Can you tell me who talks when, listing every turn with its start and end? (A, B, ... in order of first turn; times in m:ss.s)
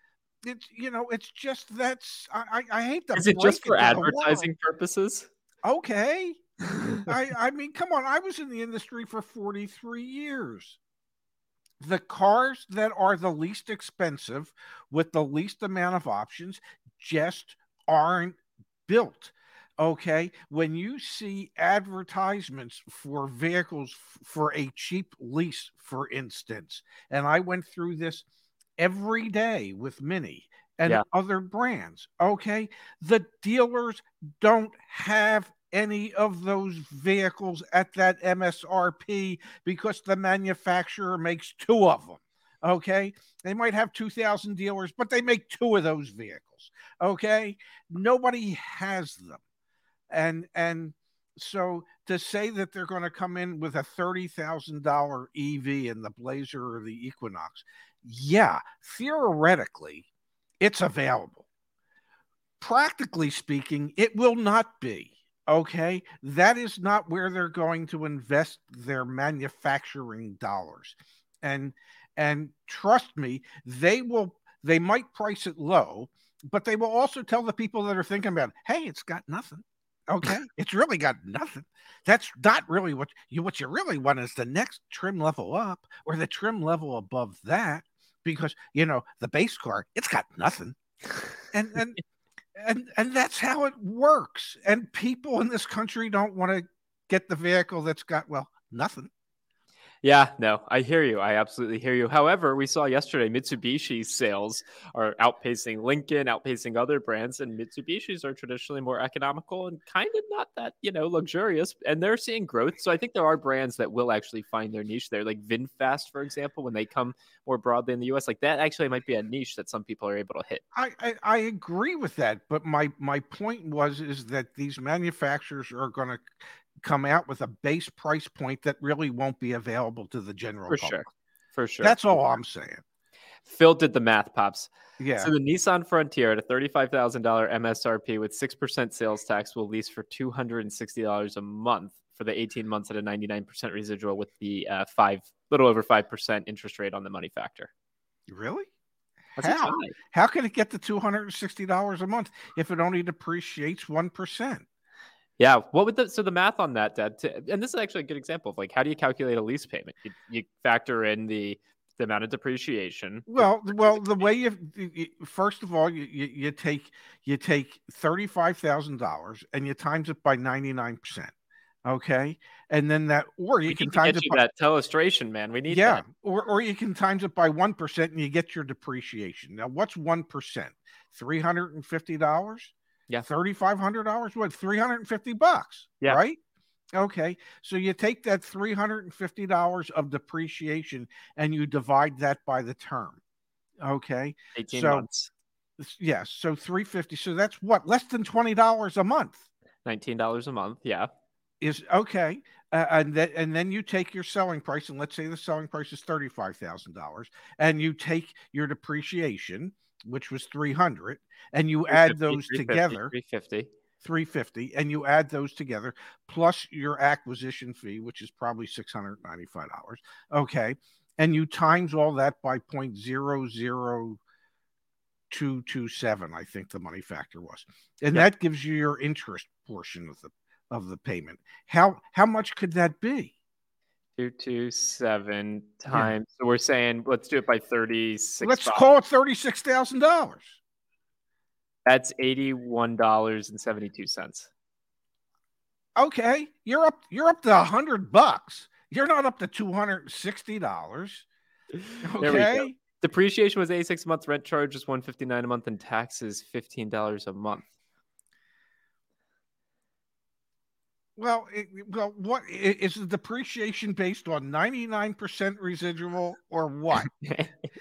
0:00.4-0:04.5 A
0:03.2-0:05.3 B
0:05.6-0:06.4 A
0:06.8-0:07.0 B
0:07.0-0:10.8 A
0:11.8-0:28.2 A
0:28.8-0:49.4 A
0:50.1-1:00.0 A
1:00.6-1:01.4 A
1:02.6-1:30.8 A
1:31.5-1:32.0 A
1:32.6-1:39.1 A
1:40.0-2:00.6 B
2:00.7-2:06.2 A
2:06.8-2:11.0 A
2:10.7-2:12.0 B
2:11.8-2:12.8 A
2:13.4-2:27.7 B
2:15.0-2:15.3 A
2:28.3-2:28.7 A
2:29.4-2:29.9 B
2:29.4-2:34.6 A
2:35.4-2:44.0 B
2:43.3-2:51.3 A
2:51.8-2:54.4 A
2:53.7-2:56.0 B
2:55.7-3:06.4 A
3:06.9-3:13.2 A
3:13.8-3:15.0 A
3:14.5-3:15.3 B
3:15.8-3:19.4 A
3:19.8-3:21.1 B
3:21.6-3:33.1 A
3:31.9-3:33.7 B
3:34.0-3:44.2 A
3:45.3-3:53.3 A
3:54.2-3:58.8 B
3:58.4-4:00.6 A
4:01.8-4:04.5 B
4:06.0-4:11.2 A
4:12.0-4:12.8 A
4:12.2-4:17.6 B
4:21.2-4:27.1 A
4:27.1-4:27.5 B